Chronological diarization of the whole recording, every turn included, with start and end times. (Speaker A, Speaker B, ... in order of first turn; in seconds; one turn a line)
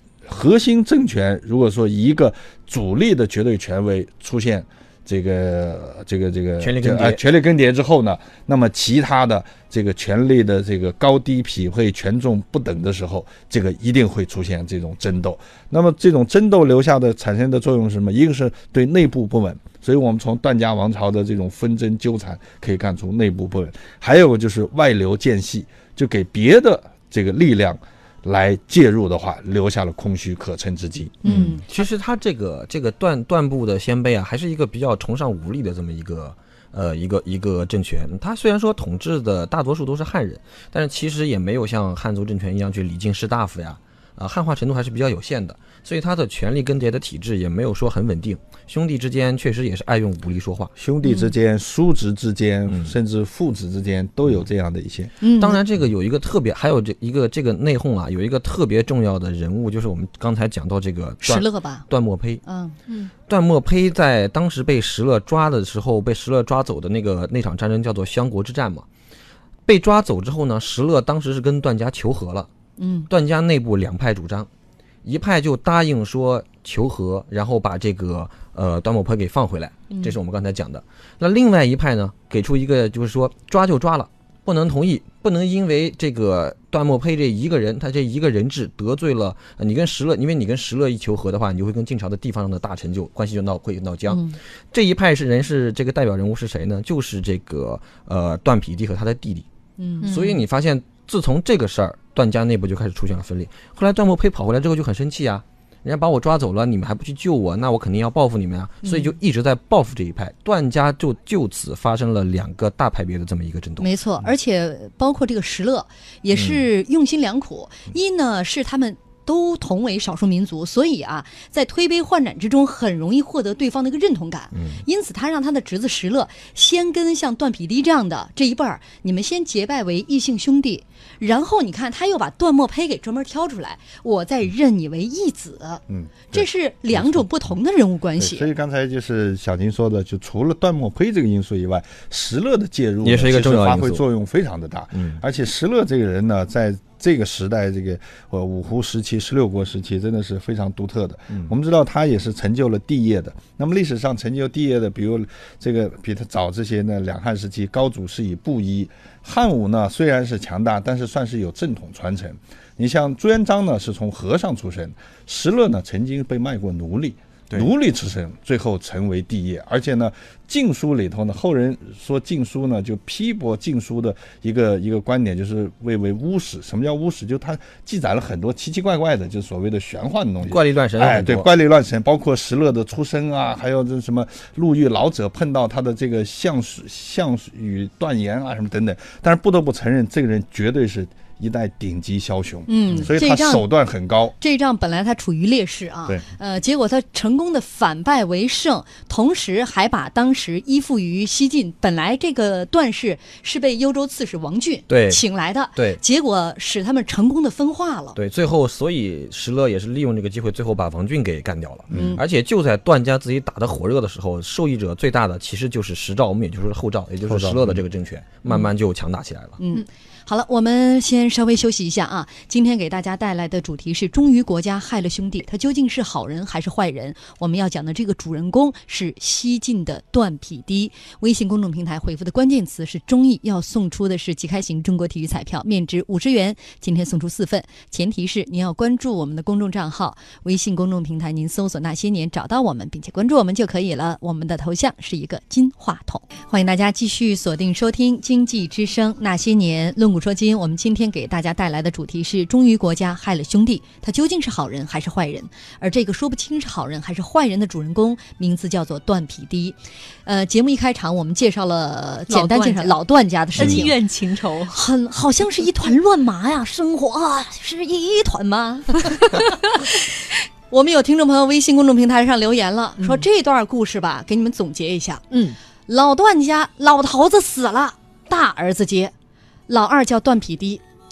Speaker A: 0.2-31.3
Speaker B: 6.6-7.2
Speaker C: 31.2-31.6
Speaker B: 31.2-50.7
Speaker A: 50.8-55.2
Speaker B: 52.7-52.9
Speaker C: 55.2-55.6
Speaker B: 55.4-62.4
Speaker C: 61.2-61.9
Speaker C: 62.4-62.7
Speaker B: 63.3-68.8
Speaker B: 69.7-72.5
Speaker C: 72.8-73.1
Speaker B: 73.1-74.5
Speaker B: 75.0-99.4
Speaker C: 94.1-94.4
Speaker C: 99.8-100.1
Speaker B: 100.0-113.9
Speaker D: 100.0-100.4
Speaker C: 108.8-109.1
Speaker C: 113.8-138.4
Speaker B: 116.3-116.6
Speaker B: 124.5-124.8
Speaker A: 135.9-137.2
Speaker A: 138.2-194.3
Speaker B: 143.0-144.0
Speaker B: 144.9-145.2
Speaker B: 180.5-181.5
Speaker C: 192.7-193.7
Speaker C: 194.4-208.2
Speaker B: 204.9-205.2
Speaker B: 205.8-206.0
Speaker B: 208.2-219.6
Speaker A: 211.9-212.2
Speaker C: 211.9-212.2
Speaker A: 217.2-217.8
Speaker C: 219.6-263.9
Speaker D: 262.3-263.0
Speaker D: 263.5-264.8
Speaker B: 263.6-263.8
Speaker C: 264.7-270.0
Speaker C: 270.7-275.2
Speaker D: 273.0-273.2
Speaker D: 275.3-275.6
Speaker C: 275.9-279.1
Speaker C: 279.7-280.8